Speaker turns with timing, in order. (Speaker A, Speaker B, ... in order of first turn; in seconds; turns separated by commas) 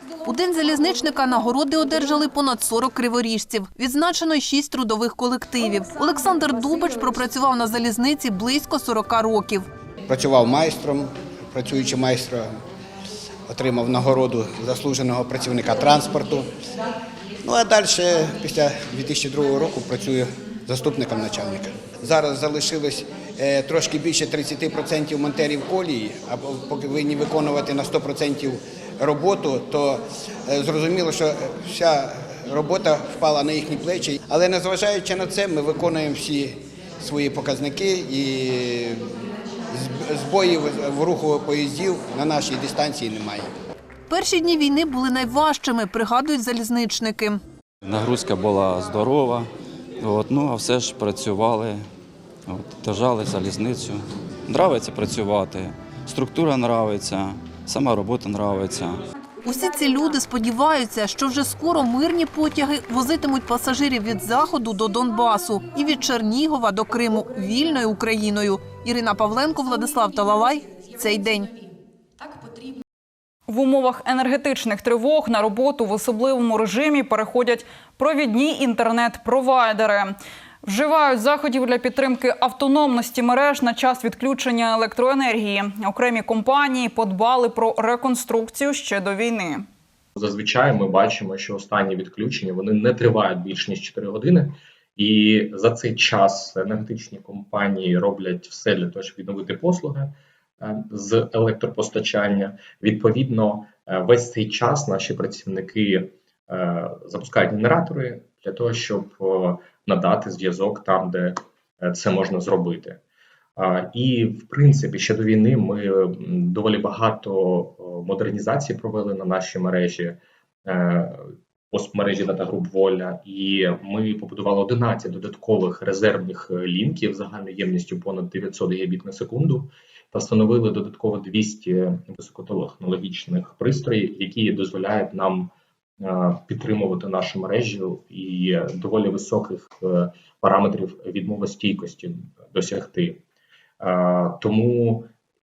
Speaker A: 0.2-9.7, Speaker B: 10.1-12.6, Speaker B: 13.5-16.5, Speaker B: 17.4-39.1, Speaker B: 39.7-43.5, Speaker A: 44.1-47.4, Speaker C: 47.8-49.5, Speaker C: 50.0-51.8, Speaker C: 52.5-59.0, Speaker A: 59.4-71.5, Speaker D: 73.5-89.6, Speaker E: 90.1-113.0, Speaker E: 113.6-135.5, Speaker E: 136.0-143.2, Speaker E: 143.8-145.1